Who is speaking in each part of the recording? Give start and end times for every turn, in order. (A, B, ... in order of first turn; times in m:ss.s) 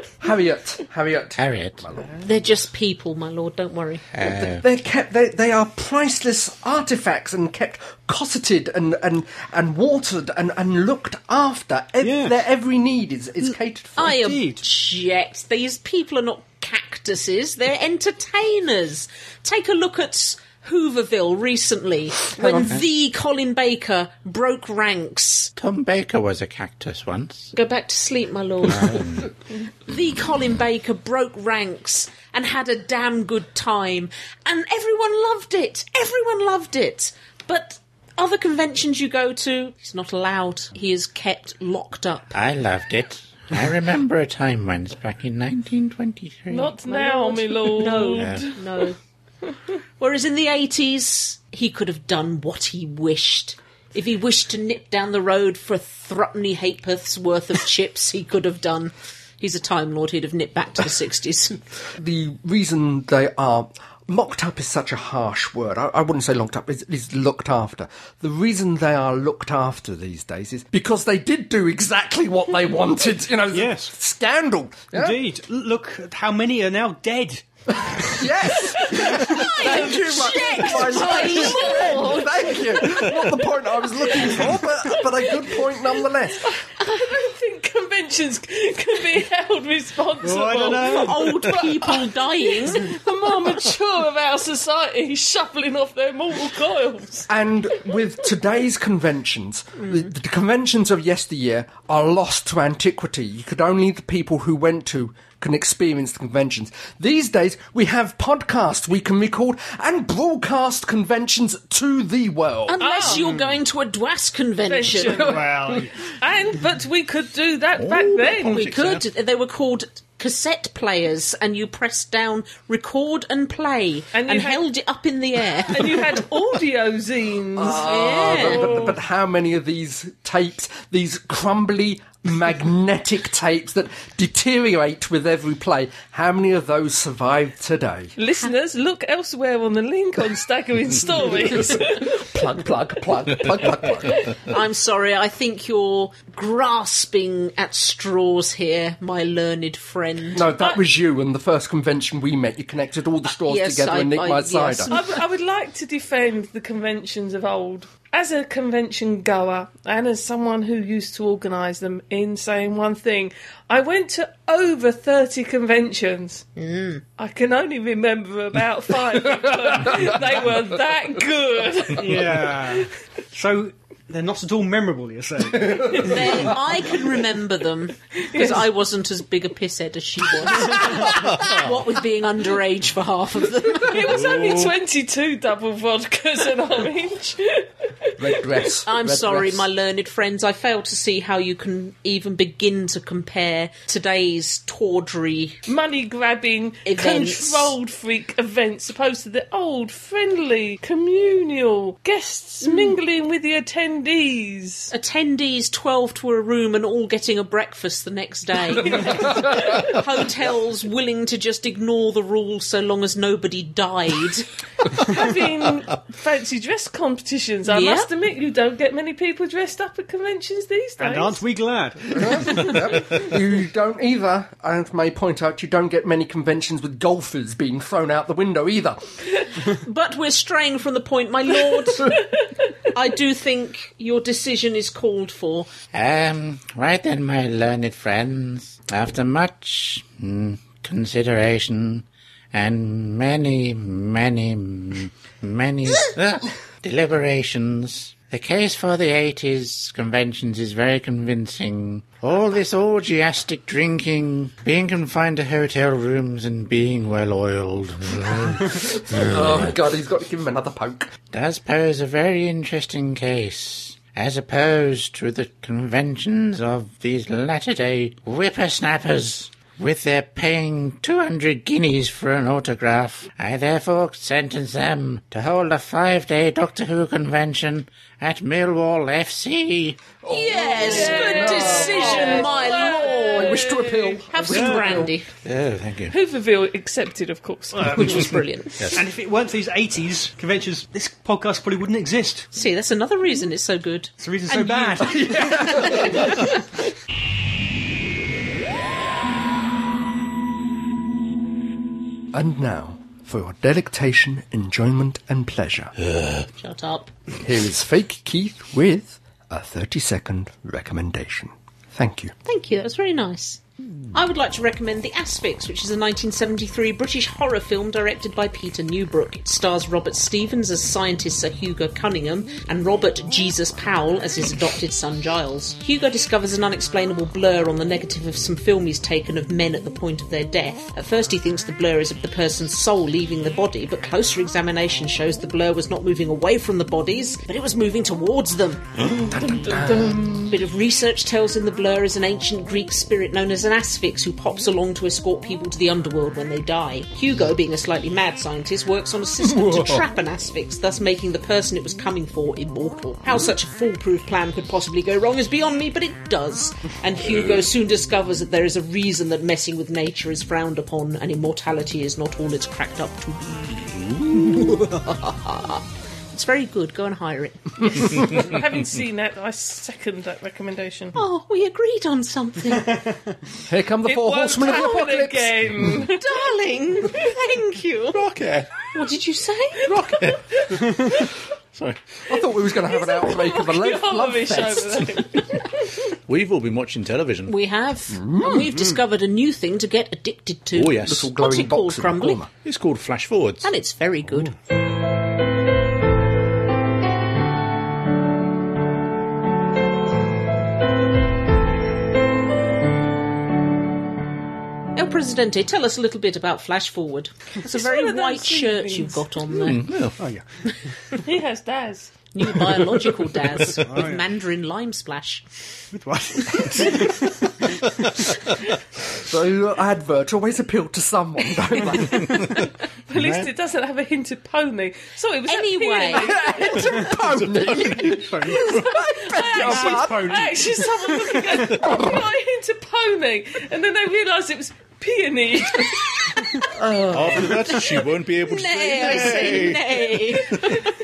0:00.2-0:02.1 A
0:01.4-0:01.8 B
0:02.2-0:04.1 C
0:04.1-0:04.6 B
0:04.2-0:14.2 A
0:12.0-0:12.4 D
0:14.0-0:25.5 C
0:14.0-0:14.6 D
0:22.4-0:22.7 A
0:25.6-0:27.5 B
0:27.5-0:29.0 C
0:28.7-0:29.3 B
0:29.9-0:42.3 C
0:42.3-0:46.7 B
0:46.5-0:48.6 E
0:46.8-0:49.0 C
0:48.2-0:48.5 B
0:50.0-1:01.6 C
1:02.0-1:15.2 A
1:13.5-1:13.9 D
1:14.9-1:18.2 D
1:18.1-1:26.6 A
1:19.2-1:22.5 C
1:19.6-1:23.0 E
1:26.4-1:37.3 E
1:30.2-1:31.4 D
1:30.7-1:32.9 C
1:37.3-1:52.8 A
1:52.7-1:55.3 C
1:52.8-1:53.3 E
1:54.7-1:55.4 E
1:55.2-1:55.9 D
1:56.1-1:58.6 E
1:57.8-1:59.0 F
1:58.4-2:06.0 C
2:04.1-2:04.6 E
2:05.7-2:09.0 E
2:07.6-2:18.1 A
2:07.6-2:08.8 C
2:18.2-2:22.2 E
2:21.4-2:24.2 A
2:24.4-2:30.5 C
2:30.3-2:34.9 A
2:33.4-2:35.2 C
2:34.9-2:46.5 E
2:46.6-2:47.0 C
2:47.2-2:52.6 E
2:49.8-2:50.1 A
2:52.0-2:56.5 D
2:55.5-2:56.1 A
2:56.0-3:04.0 C
2:58.2-2:58.7 E
3:03.8-3:08.6 E
3:04.2-3:04.7 F
3:08.2-3:09.7 A
3:08.9-3:15.6 C
3:15.7-3:24.9 E
3:16.8-3:17.8 C
3:22.6-3:23.0 C
3:24.9-3:34.5 C
3:28.9-3:29.6 E
3:35.0-3:41.4 E
3:37.7-3:38.1 C
3:41.0-3:42.7 D
3:42.1-3:49.0 A
3:49.7-3:52.3 C
3:52.9-3:55.7 C
3:55.9-4:19.7 B
4:19.1-4:21.1 A
4:21.3-4:40.2 B
4:40.2-4:45.1 A
4:40.3-4:43.7 C
4:40.8-4:44.2 E
4:44.3-4:45.3 C
4:44.5-4:44.8 D
4:45.4-4:46.2 B
4:46.1-4:48.1 E
4:47.7-4:48.4 D
4:47.9-4:48.9 C
4:48.8-4:49.0 F
4:48.9-4:52.5 D
4:52.5-4:54.1 C
4:54.2-4:56.0 D
4:54.5-4:56.5 A
5:02.3-5:05.9 A
5:06.0-5:06.5 F
5:06.6-5:07.1 C
5:07.4-5:12.3 A
5:12.4-5:13.6 C
5:14.1-5:38.9 C
5:39.0-5:39.3 F
5:39.2-5:40.6 A
5:40.5-6:08.3 C
5:49.5-5:50.0 A
5:57.2-5:57.6 F
6:08.2-6:11.2 E
6:11.2-6:13.0 C
6:13.7-6:16.0 A
6:14.0-6:16.5 E
6:16.1-6:18.2 C
6:18.1-6:18.8 F
6:18.9-6:20.3 C
6:19.8-6:20.6 F
6:21.0-6:21.2 E
6:22.3-6:25.2 A
6:22.7-6:25.9 E
6:26.3-6:27.5 F
6:27.5-6:32.4 C
6:28.1-6:28.6 A
6:30.7-6:31.3 F
6:31.0-6:32.5 A
6:32.6-6:33.7 F
6:33.6-6:34.6 C
6:45.0-6:49.8 C
6:47.6-6:49.3 E
6:49.5-6:50.2 F
6:50.2-6:50.4 D
6:51.2-6:52.2 E
6:52.3-6:55.4 C
6:53.8-6:54.2 D
6:55.9-6:57.3 D
6:59.2-7:02.5 A
7:03.1-7:07.1 E
7:05.5-7:06.3 C
7:06.0-7:10.3 A
7:07.6-7:08.1 F
7:08.0-7:09.0 D
7:09.2-7:16.5 E
7:09.5-7:11.7 D
7:11.7-7:12.2 A
7:16.7-7:17.8 A
7:17.1-7:20.7 F
7:18.4-7:21.0 C